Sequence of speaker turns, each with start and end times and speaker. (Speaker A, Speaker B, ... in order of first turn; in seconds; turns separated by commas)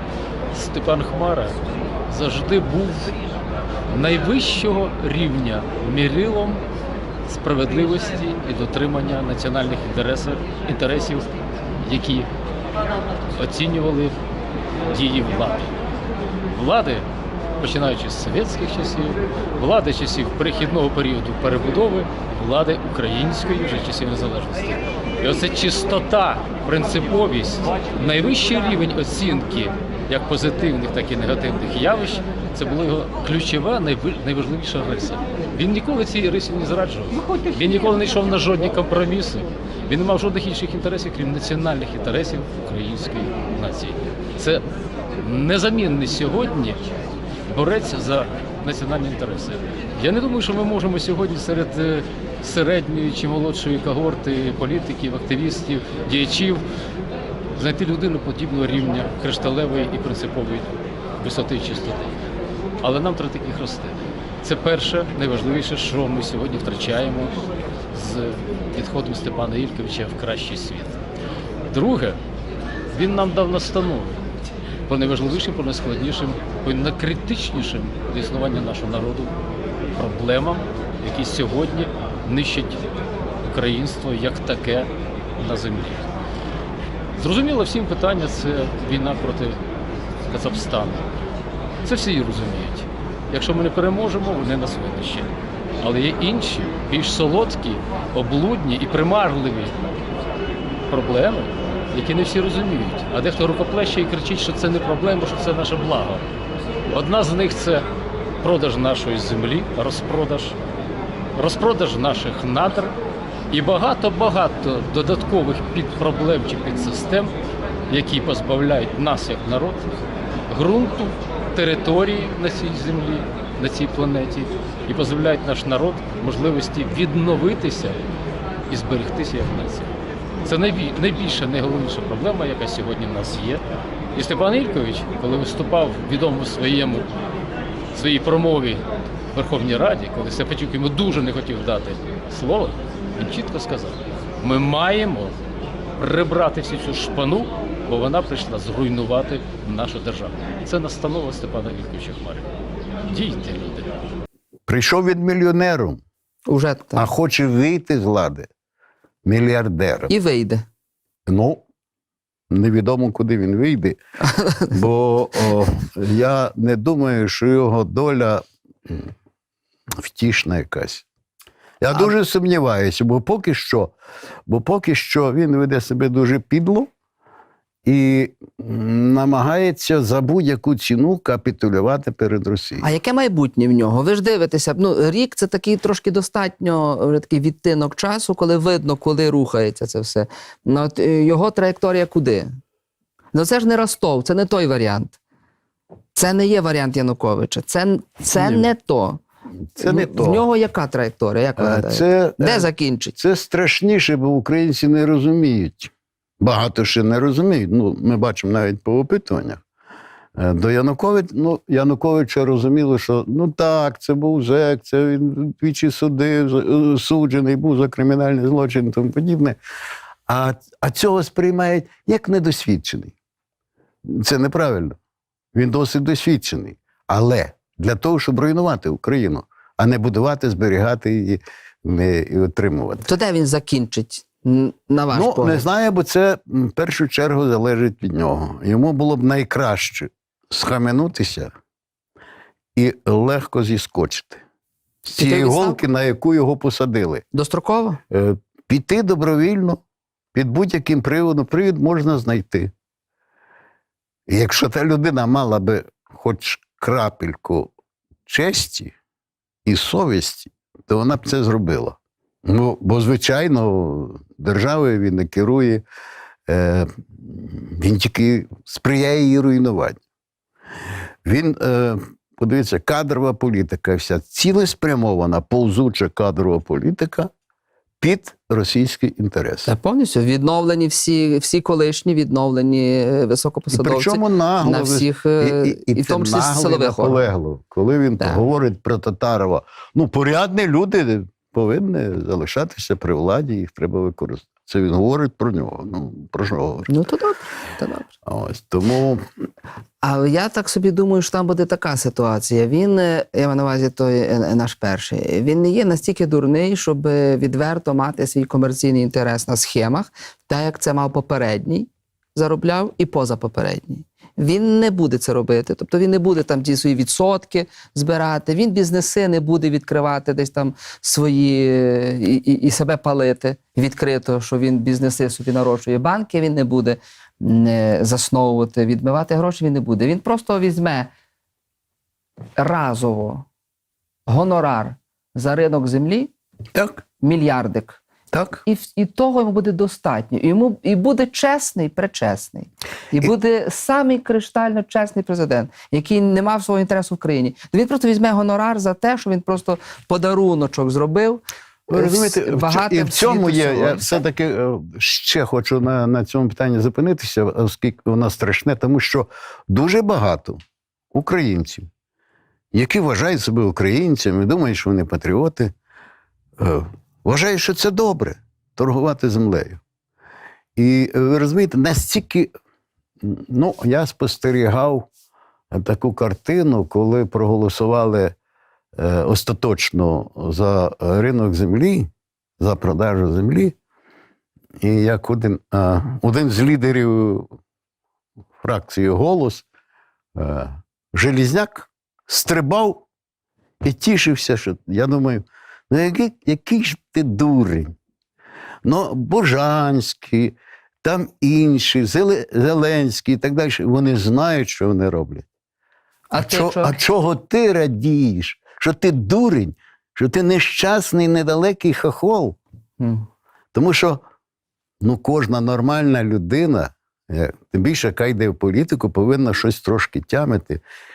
Speaker A: 0.5-3.1, Speaker A: 3.9-6.6, Speaker A: 7.3-11.3, Speaker A: 11.8-12.3, Speaker A: 13.3-14.2, Speaker A: 14.9-15.7, Speaker A: 16.5-17.1, Speaker A: 17.6-44.6, Speaker A: 45.2-46.9, Speaker A: 47.5-56.6, Speaker A: 57.5-62.1, Speaker A: 62.8-67.4, Speaker A: 67.9-71.0, Speaker A: 71.6-72.2, Speaker A: 72.9-74.2, Speaker A: 74.9-79.3, Speaker A: 79.9-82.8, Speaker A: 83.4-86.1, Speaker A: 87.2-89.6, Speaker A: 90.3-91.0, Speaker A: 91.8-99.7, Speaker A: 100.9-106.3, Speaker A: 106.9-107.8, Speaker A: 108.4-110.6, Speaker A: 111.3-112.9, Speaker A: 113.5-117.3, Speaker A: 117.9-119.8, Speaker A: 120.5-128.0, Speaker A: 128.7-129.9, Speaker A: 130.4-133.6, Speaker A: 134.1-137.1, Speaker A: 137.9-145.3, Speaker A: 146.0-152.5, Speaker A: 153.1-154.0, Speaker B: 154.7-156.0, Speaker C: 156.5-157.1, Speaker B: 156.9-158.5, Speaker B: 159.2-160.1, Speaker C: 160.1-160.6, Speaker B: 161.3-161.6, Speaker B: 162.5-164.0, Speaker C: 164.3-164.7, Speaker B: 164.7-169.1, Speaker B: 170.0-171.1, Speaker B: 171.8-173.9, Speaker B: 174.5-176.9, Speaker B: 177.8-182.9, Speaker C: 182.8-192.5, Speaker C: 193.3-195.2, Speaker C: 196.1-199.2, Speaker B: 198.3-198.7, Speaker B: 199.8-200.4, Speaker C: 199.8-203.2, Speaker B: 201.6-209.6, Speaker B: 210.3-219.6, Speaker B: 220.3-223.1, Speaker B: 224.0-224.9, Speaker B: 225.5-233.1, Speaker C: 233.0-235.6, Speaker B: 235.1-241.5, Speaker B: 242.7-244.4, Speaker B: 245.1-247.2, Speaker C: 245.1-245.8, Speaker C: 247.3-248.0, Speaker B: 248.1-249.8, Speaker B: 250.3-252.7, Speaker B: 254.3-257.7, Speaker B: 258.3-258.9, Speaker B: 259.6-265.8, Speaker B: 266.5-270.0, Speaker B: 271.2-277.3, Speaker B: 278.0-279.7, Speaker C: 279.7-287.2, Speaker B: 283.7-296.9, Speaker C: 296.9-298.1, Speaker B: 298.2-299.2, Speaker C: 300.0-331.1, Speaker C: 332.6-333.4, Speaker C: 334.3-336.3, Speaker B: 336.7-337.0, Speaker C: 337.2-338.0, Speaker B: 338.3-338.6, Speaker C: 338.6-354.2, Speaker B: 351.9-360.6, Speaker B: 361.1-361.9, Speaker B: 362.7-365.7, Speaker B: 366.6-369.8, Speaker B: 370.8-372.5, Speaker B: 373.2-375.1, Speaker B: 375.7-378.4, Speaker B: 378.9-382.1, Speaker B: 382.6-383.8, Speaker B: 384.8-387.5, Speaker B: 388.6-389.6, Speaker B: 390.4-393.1, Speaker B: 393.8-397.9, Speaker B: 398.8-405.4, Speaker C: 406.3-407.0, Speaker B: 406.4-412.6, Speaker C: 413.0-413.2, Speaker B: 413.7-414.2, Speaker B: 415.0-420.8